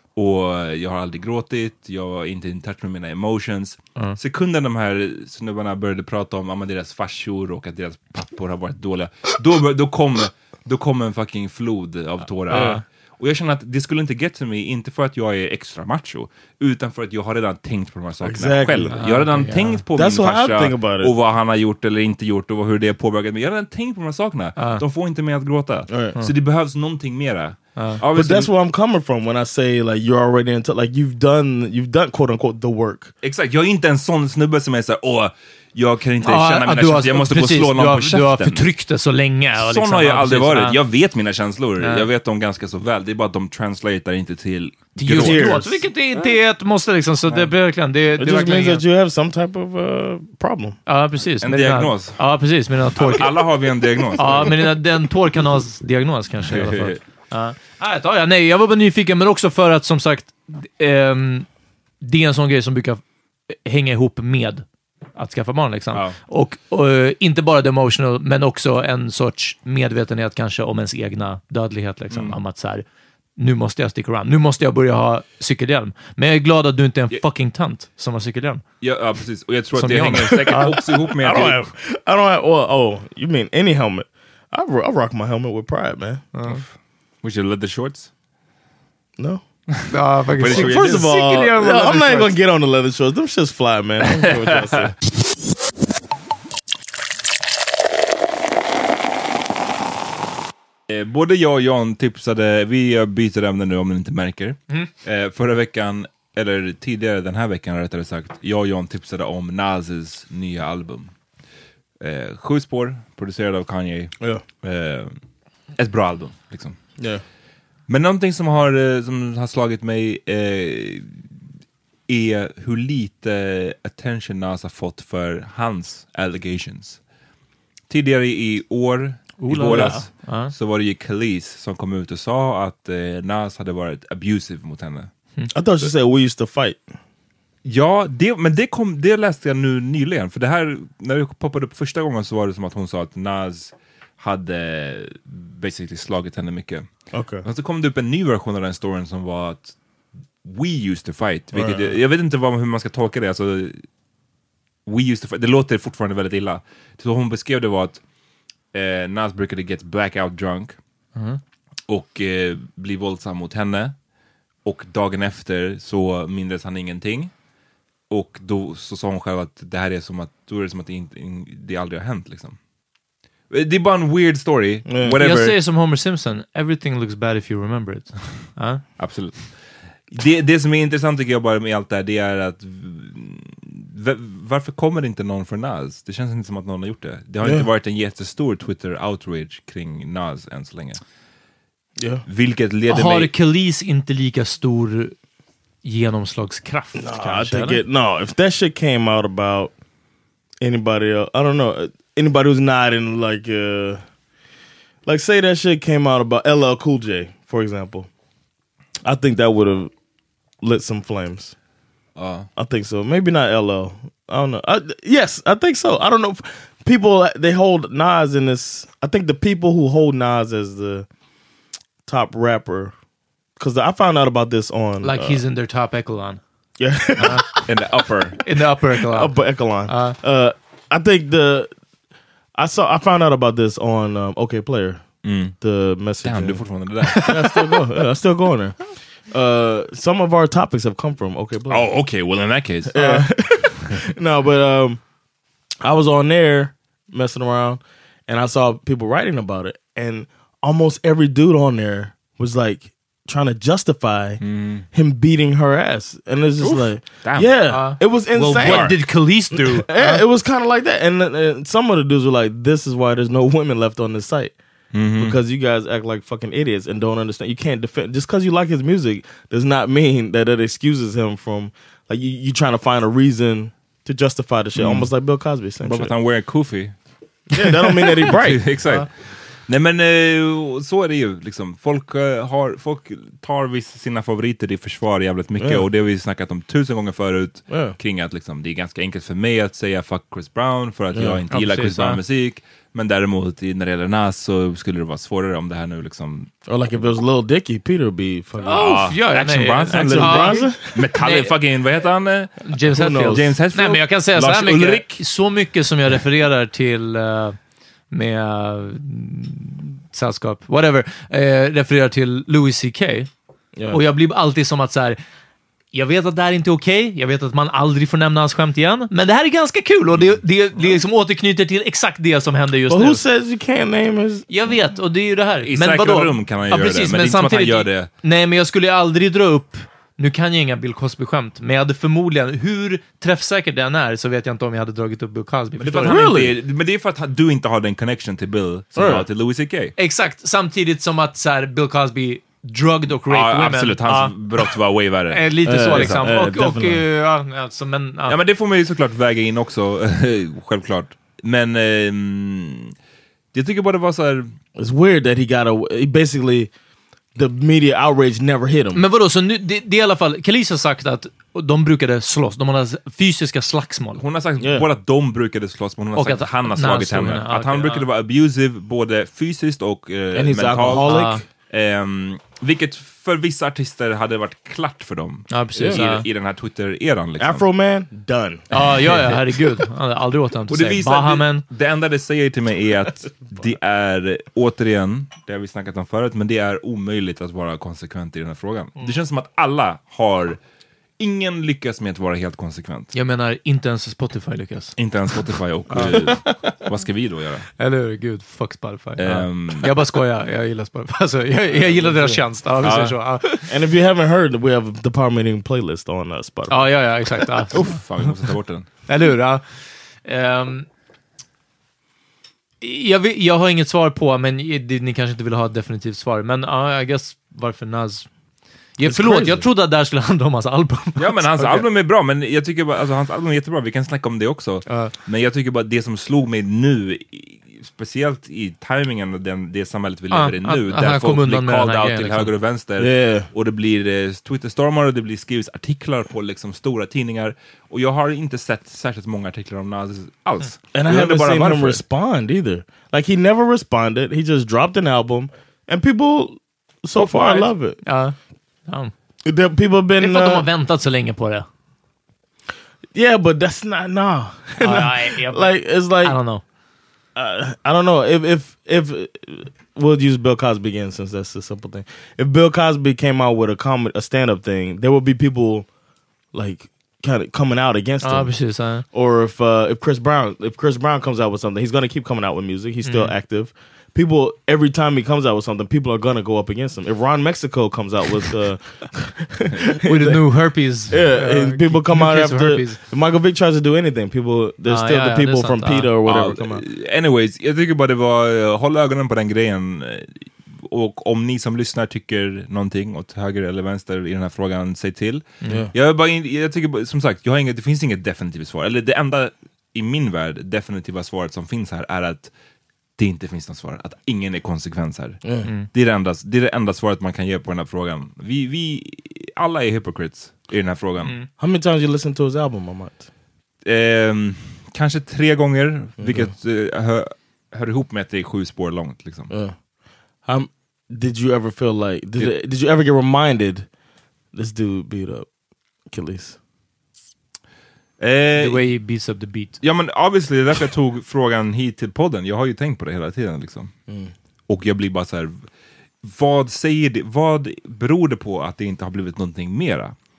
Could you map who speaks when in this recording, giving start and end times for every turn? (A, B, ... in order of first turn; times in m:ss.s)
0:00.2-0:28.5 A
0:12.5-0:12.8 B
0:12.5-0:12.8 C
0:18.2-0:19.0 C
0:18.9-0:19.8 B
0:19.9-0:21.1 C
0:24.6-0:24.8 B
0:25.9-0:26.2 C
0:28.1-0:33.1 C
0:33.2-0:38.7 A
0:36.2-0:40.8 B
0:39.6-0:45.6 A
0:41.8-0:42.1 B
0:45.0-0:48.8 B
0:45.2-0:45.8 C
0:48.2-0:50.8 C
0:50.9-0:53.4 B
0:51.4-0:52.2 A
0:53.0-0:54.7 A
0:54.2-1:01.5 B
0:56.4-0:57.0 A
1:02.0-1:03.0 B
1:03.6-1:04.6 B
1:05.2-1:12.8 B
1:12.1-1:12.4 A
1:13.4-1:18.6 B
1:18.8-1:21.6 A
1:19.8-1:20.7 B
1:20.3-1:26.2 C
1:26.3-1:26.6 B
1:26.4-1:26.7 A
1:27.2-1:28.1 A
1:29.9-1:32.3 B
1:30.4-1:30.9 A
1:30.4-1:34.9 C
1:34.1-1:34.9 A
1:40.9-1:51.1 A
1:52.0-1:55.2 A
1:55.8-1:56.8 A
1:57.0-1:57.2 C
1:57.9-2:01.1 A
2:02.1-2:07.0 A
2:07.9-2:15.1 A
2:09.4-2:10.5 B
2:15.5-2:16.8 C
2:17.6-2:26.9 A
2:27.1-2:27.4 C
2:27.4-2:29.7 A
2:30.4-2:33.8 A
2:31.5-2:32.0 C
2:34.8-2:38.0 A
2:38.7-2:40.8 A
2:41.2-2:41.4 B
2:41.9-2:44.0 A
2:44.6-2:47.3 A
2:48.1-2:52.6 A
2:53.5-2:55.6 A
2:54.8-2:55.2 C
2:55.2-2:58.8 B
2:59.0-2:59.6 A
3:00.1-3:11.0 A
3:07.4-3:07.7 C
3:12.0-3:12.2 C
3:12.3-3:13.3 A
3:12.9-3:15.1 B
3:15.8-3:17.8 B
3:17.0-3:19.7 C
3:20.6-3:24.0 C
3:25.0-3:28.1 C
3:29.0-3:29.9 C
3:30.6-3:31.5 C
3:32.2-3:32.5 A
3:32.6-3:41.0 C
3:42.0-3:42.9 C
3:43.6-3:45.4 C
3:45.0-3:46.4 B
3:46.8-3:47.7 C
3:47.2-3:48.4 A
3:48.4-3:49.4 B
3:48.9-3:51.7 C
3:49.9-3:50.2 B
3:52.6-3:55.0 C
3:55.2-3:55.5 A
3:55.6-3:56.6 C
3:56.2-3:57.3 A
3:57.1-3:57.4 B
3:57.2-3:58.8 C
3:59.3-4:01.9 C
4:01.7-4:03.2 A
4:02.9-4:05.0 C
4:05.8-4:19.0 C
4:14.4-4:14.8 A
4:16.6-4:17.6 A
4:17.7-4:20.2 B
4:18.6-4:19.0 A
4:19.6-4:24.5 C
4:24.9-4:25.4 A
4:25.2-4:36.1 C
4:34.7-4:35.1 A
4:35.8-4:36.9 A
4:37.5-4:38.6 C
4:37.6-4:39.1 A
4:39.6-4:56.5 A
4:45.6-4:45.8 C
4:47.7-4:48.0 C
4:51.1-4:51.4 C
4:51.5-4:52.2 B
4:56.6-4:59.0 C
4:58.6-5:01.5 B
4:58.7-5:02.6 A
4:59.9-5:01.0 C
5:02.6-5:07.6 B
5:02.8-5:03.5 C
5:03.2-5:05.2 A
5:08.1-5:13.3 B
5:13.7-5:14.0 C
5:13.9-5:15.2 B
5:15.9-5:23.2 B
5:22.9-5:24.5 C
5:24.5-5:36.3 B
5:25.6-5:28.1 A
5:35.8-5:39.9 A
5:36.0-5:36.5 C
5:39.0-5:39.2 C
5:40.0-5:44.7 B
5:43.3-5:46.6 A
5:45.3-5:48.4 B
5:45.6-5:47.0 C
5:48.3-5:52.9 A
5:53.5-5:54.5 A
5:54.8-5:56.7 C
5:57.3-5:59.0 C
5:58.9-6:04.2 B
6:04.2-6:11.1 A
6:04.6-6:04.9 C
6:06.2-6:08.0 B
6:10.3-6:11.4 C
6:11.0-6:11.4 B
6:11.7-6:17.6 A
6:15.5-6:16.2 B
6:15.8-6:16.0 C
6:17.4-6:19.4 C
6:18.7-6:21.6 B
6:20.7-6:30.6 A
6:31.2-6:33.1 A
6:33.1-6:34.9 B
6:35.0-6:37.7 A
6:35.9-6:36.4 B
6:37.8-6:43.7 B
6:39.2-6:39.9 A
6:42.0-6:42.4 C
6:42.8-6:43.2 A
6:43.7-6:46.9 C
6:46.7-6:47.9 B
6:47.7-6:48.9 A
6:49.1-6:49.6 B
6:50.2-6:50.9 B
6:52.8-6:58.3 B
6:59.0-7:01.8 B
6:59.0-6:59.6 C
7:01.2-7:22.0 A
7:10.3-7:12.5 B
7:13.0-7:13.5 C
7:20.9-7:28.0 C
7:27.2-7:28.3 B
7:29.4-7:30.7 C
7:30.2-7:31.7 B
7:33.1-7:36.4 C
7:34.8-7:36.6 B
7:37.3-7:45.8 C
7:46.5-7:48.5 C
7:48.2-7:49.0 B
7:49.1-8:00.4 C
7:53.0-7:53.3 B
8:00.0-8:03.0 B
8:01.1-8:06.8 C
8:04.8-8:06.1 B
8:06.2-8:22.5 A
8:15.6-8:15.9 C
8:23.2-8:31.4 A
8:25.4-8:25.7 C
8:31.2-8:31.5 B
8:31.6-8:33.2 C
8:33.8-8:39.5 A
8:36.2-8:36.5 C
8:39.5-8:39.8 C
8:40.4-8:43.9 C
8:44.5-8:45.4 C
8:46.1-8:46.6 C
8:48.2-8:48.9 A
8:48.6-8:49.8 B
8:49.8-8:53.9 A
8:54.1-8:54.3 C
8:54.7-8:55.6 A
8:56.2-9:00.1 A